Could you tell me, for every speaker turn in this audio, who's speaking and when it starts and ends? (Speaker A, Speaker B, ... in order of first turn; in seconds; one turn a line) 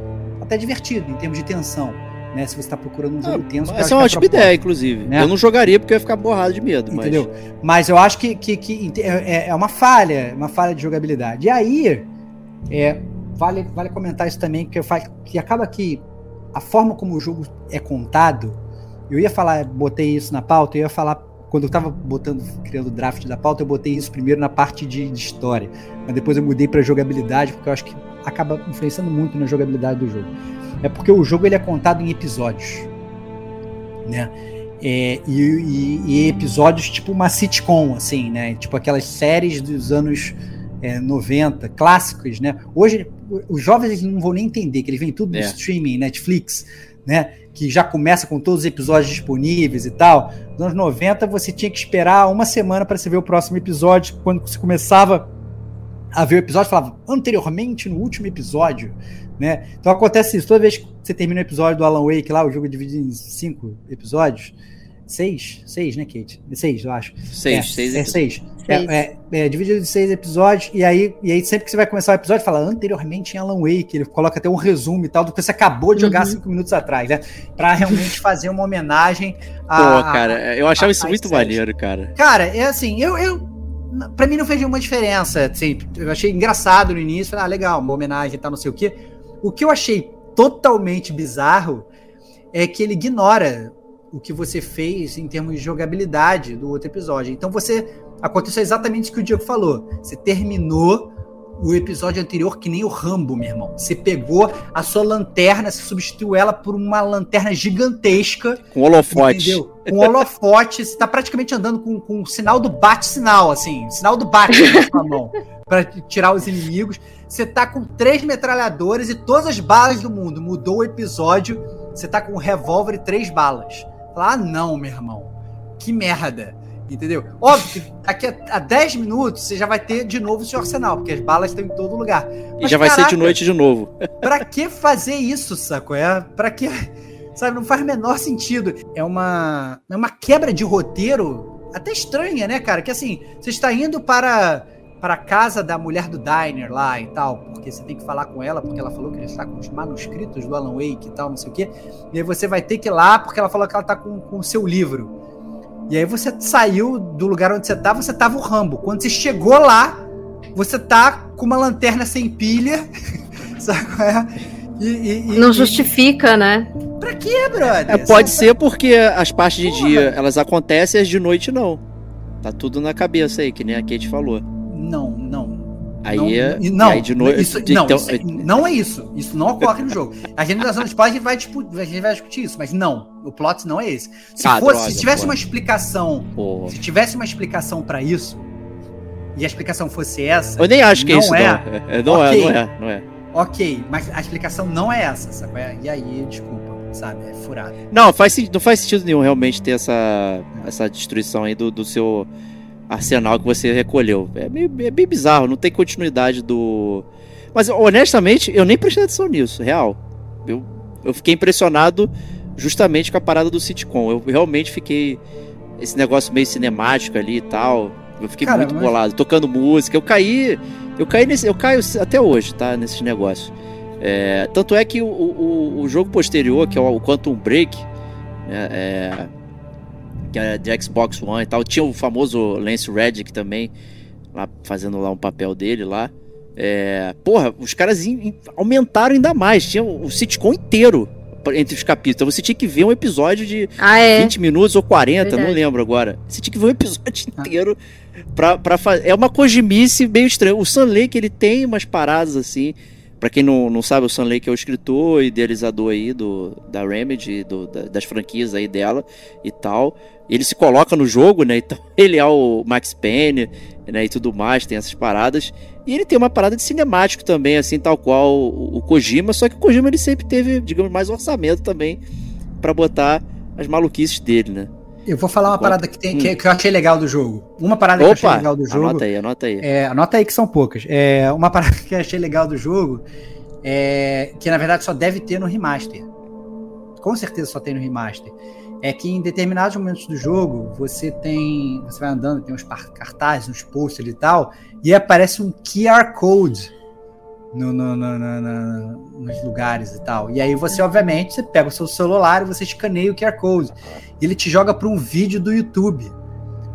Speaker A: 0.4-5.3
Speaker B: 3.2-7.3
Speaker A: 6.9-12.1
Speaker A: 12.7-18.6
Speaker A: 19.1-32.9
Speaker A: 34.1-55.3
Speaker A: 56.1-64.5
Speaker A: 65.1-81.6
Speaker B: 67.3-68.2
Speaker C: 68.6-69.0
Speaker B: 79.8-82.1
Speaker A: 82.2-91.9
Speaker A: 92.5-133.4
Speaker B: 108.7-110.2
Speaker B: 132.6-133.9
Speaker A: 134.2-155.1
Speaker A: 155.9-160.0
Speaker A: 160.6-162.8
Speaker A: 163.6-165.9
Speaker C: 165.3-166.7
Speaker A: 167.0-168.5
Speaker B: 167.9-171.8
Speaker A: 169.6-170.1
Speaker B: 172.4-174.4
Speaker A: 174.7-188.5
Speaker B: 176.0-178.5
Speaker B: 184.4-185.3
Speaker B: 186.4-186.8
Speaker A: 189.3-192.6
Speaker B: 190.6-193.0
Speaker A: 193.3-197.8
Speaker B: 197.9-202.3
Speaker B: 202.9-215.2
Speaker B: 215.8-227.9
Speaker A: 218.4-218.9
Speaker B: 228.5-229.3
Speaker B: 230.3-233.7
Speaker B: 234.3-247.8
Speaker C: 243.8-244.3
Speaker C: 245.2-245.6
Speaker B: 248.4-272.0
Speaker B: 272.6-274.7
Speaker A: 275.1-279.1
Speaker B: 275.4-276.3
Speaker B: 278.0-279.7
Speaker A: 279.6-283.1
Speaker A: 283.6-286.1
Speaker A: 287.0-296.7
Speaker A: 297.5-306.1